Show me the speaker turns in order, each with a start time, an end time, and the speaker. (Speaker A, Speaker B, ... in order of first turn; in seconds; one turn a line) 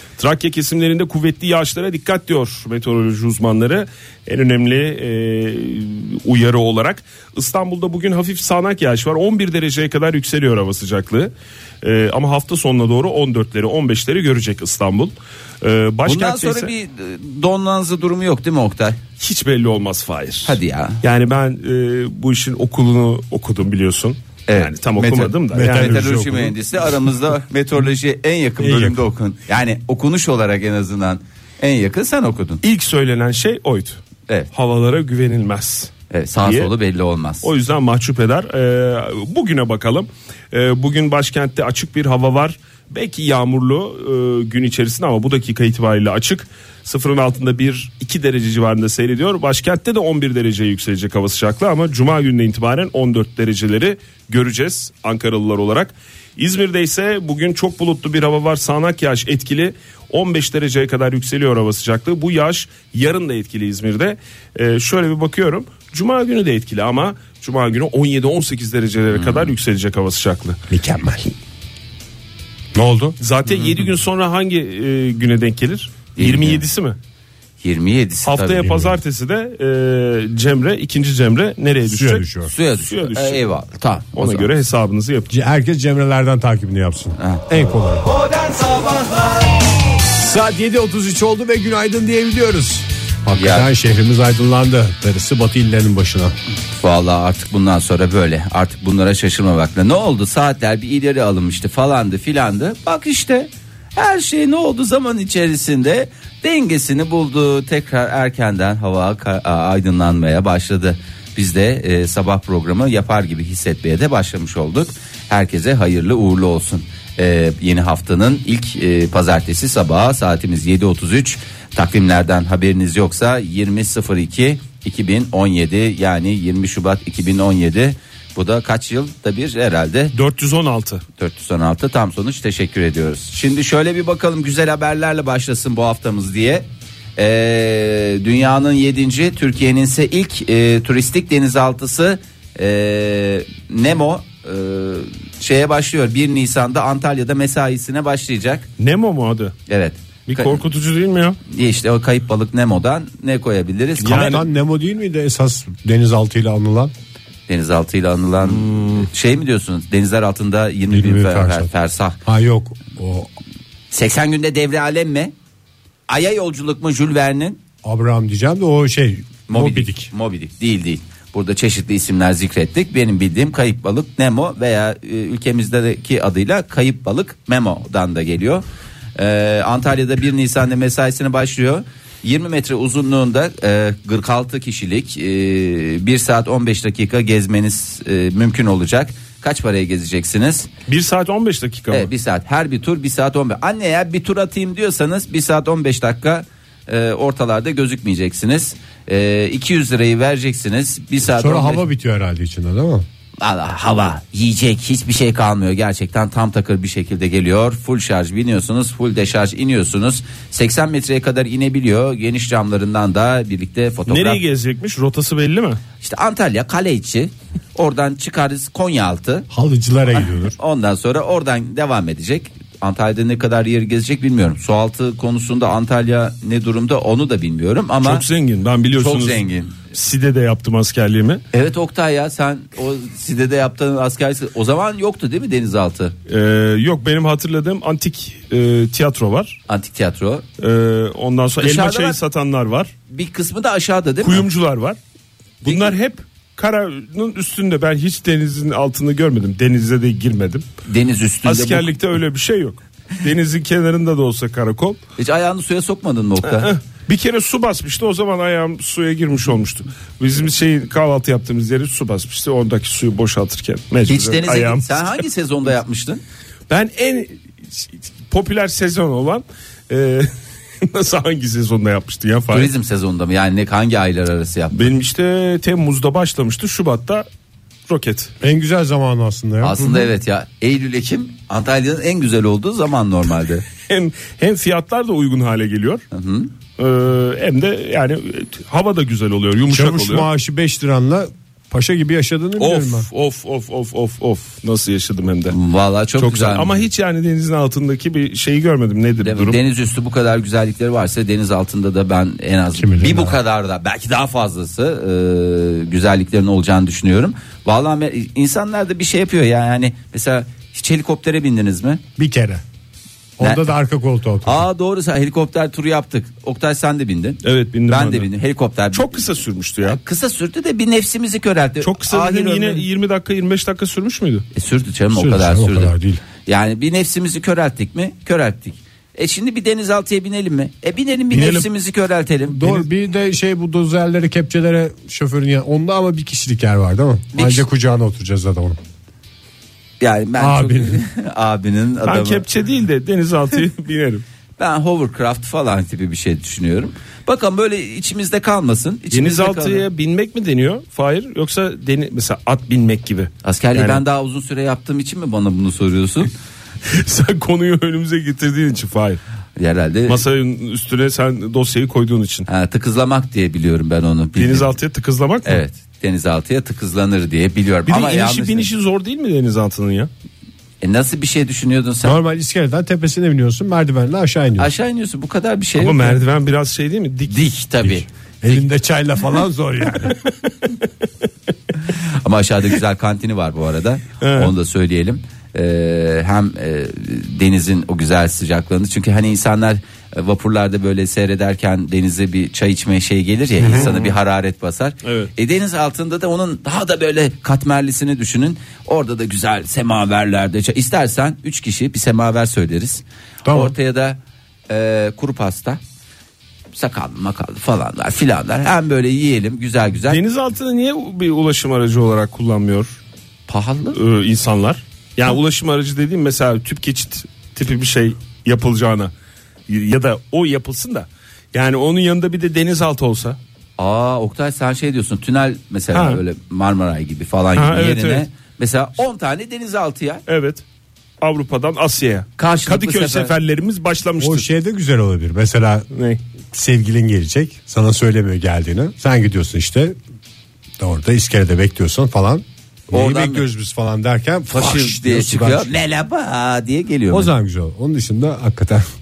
Speaker A: 0.2-16.7
Speaker B: 16.1-19.0
Speaker A: 19.2-26.1
Speaker B: 20.4-21.0
Speaker B: 24.5-32.6
Speaker C: 25.5-26.5
Speaker C: 28.6-29.0
Speaker A: 32.6-34.0
Speaker A: 34.5-35.9
Speaker B: 36.1-37.5
Speaker A: 36.5-36.7
Speaker A: 37.4-70.6
Speaker B: 69.1-69.5
Speaker C: 70.7-71.3
Speaker C: 72.7-73.2
Speaker A: 73.2-77.0
Speaker B: 73.5-73.9
Speaker B: 76.2-76.6
Speaker B: 77.6-78.9
Speaker A: 78.2-83.5
Speaker C: 81.8-82.5
Speaker B: 82.5-84.5
Speaker A: 84.2-85.3
Speaker C: 85.3-88.1
Speaker B: 87.2-87.5
Speaker B: 88.5-88.8
Speaker C: 90.1-96.3
Speaker B: 93.3-93.7
Speaker B: 96.8-130.1
Speaker A: 130.1-131.0
Speaker B: 131.2-136.7
Speaker B: 137.2-148.7
Speaker A: 148.8-149.6
Speaker B: 149.7-150.6
Speaker A: 150.3-151.4
Speaker B: 151.5-154.4
Speaker A: 154.0-154.4
Speaker C: 154.0-156.9
Speaker B: 157.5-162.2
Speaker A: 158.5-159.0
Speaker C: 160.9-161.7
Speaker C: 162.2-163.3
Speaker B: 163.9-165.3
Speaker B: 166.1-167.6
Speaker C: 167.8-170.1
Speaker B: 169.5-178.6
Speaker B: 179.2-190.7
Speaker A: 190.9-192.1
Speaker B: 191.9-201.8
Speaker C: 201.2-203.1
Speaker B: 203.4-214.4
Speaker A: 214.1-215.8
Speaker B: 216.0-219.5
Speaker C: 219.5-220.6
Speaker B: 220.6-228.2
Speaker A: 228.0-231.4
Speaker B: 229.0-229.8
Speaker B: 231.5-236.2
Speaker A: 236.3-239.6
Speaker B: 239.7-240.4
Speaker A: 240.6-242.9
Speaker B: 241.6-242.2
Speaker B: 243.1-244.5
Speaker A: 244.2-245.0
Speaker A: 245.6-250.7
Speaker B: 245.7-245.9
Speaker B: 250.9-251.9
Speaker A: 251.4-255.0
Speaker B: 255.2-256.7
Speaker A: 256.4-265.2
Speaker B: 264.1-266.2
Speaker A: 266.7-272.7
Speaker B: 272.5-274.9
Speaker A: 274.7-277.3
Speaker A: 277.9-278.3
Speaker C: 278.4-280.1
Speaker B: 279.6-283.7
Speaker A: 283.9-286.0
Speaker B: 286.1-286.5
Speaker A: 286.8-290.3
Speaker C: 289.7-293.1
Speaker A: 292.6-295.6
Speaker B: 295.5-296.8
Speaker A: 296.2-299.6
Speaker B: 299.2-312.0
Speaker C: 302.8-303.4
Speaker C: 312.2-312.6
Speaker C: 313.4-314.6
Speaker B: 314.4-319.2
Speaker A: 317.4-318.3
Speaker A: 318.9-320.0
Speaker B: 319.8-322.9
Speaker A: 321.8-324.4
Speaker B: 324.5-325.9
Speaker C: 325.1-326.2
Speaker B: 326.5-332.9
Speaker A: 331.3-331.7
Speaker C: 332.5-338.8
Speaker B: 337.3-337.7
Speaker B: 340.0-342.4
Speaker C: 340.4-341.0
Speaker A: 342.1-344.2
Speaker B: 344.6-349.9
Speaker A: 349.1-354.0
Speaker B: 353.4-356.3
Speaker A: 356.9-359.2
Speaker B: 359.6-360.2
Speaker A: 360.1-362.5
Speaker B: 362.5-364.7
Speaker A: 364.4-365.6
Speaker B: 365.4-368.7
Speaker A: 367.9-370.1
Speaker B: 370.8-372.2
Speaker C: 372.0-374.7
Speaker B: 374.6-376.2
Speaker A: 375.8-377.5
Speaker B: 377.3-378.6
Speaker C: 378.4-380.2
Speaker B: 381.9-405.8
Speaker A: 384.2-384.5
Speaker C: 393.6-393.9
Speaker A: 393.7-394.1
Speaker A: 395.0-395.3
Speaker C: 403.4-403.7
Speaker B: 406.7-410.2
Speaker A: 410.1-413.0
Speaker B: 413.5-414.0
Speaker A: 413.9-419.1
Speaker A: 419.7-423.4
Speaker B: 423.8-430.2
Speaker A: 425.9-426.2
Speaker A: 427.6-428.2
Speaker A: 430.3-430.6
Speaker A: 431.2-434.5
Speaker B: 432.4-433.3
Speaker C: 434.2-435.9
Speaker A: 435.9-436.2
Speaker C: 436.5-440.0
Speaker C: 440.8-445.8
Speaker B: 442.9-443.5
Speaker B: 444.5-447.3
Speaker C: 447.1-448.9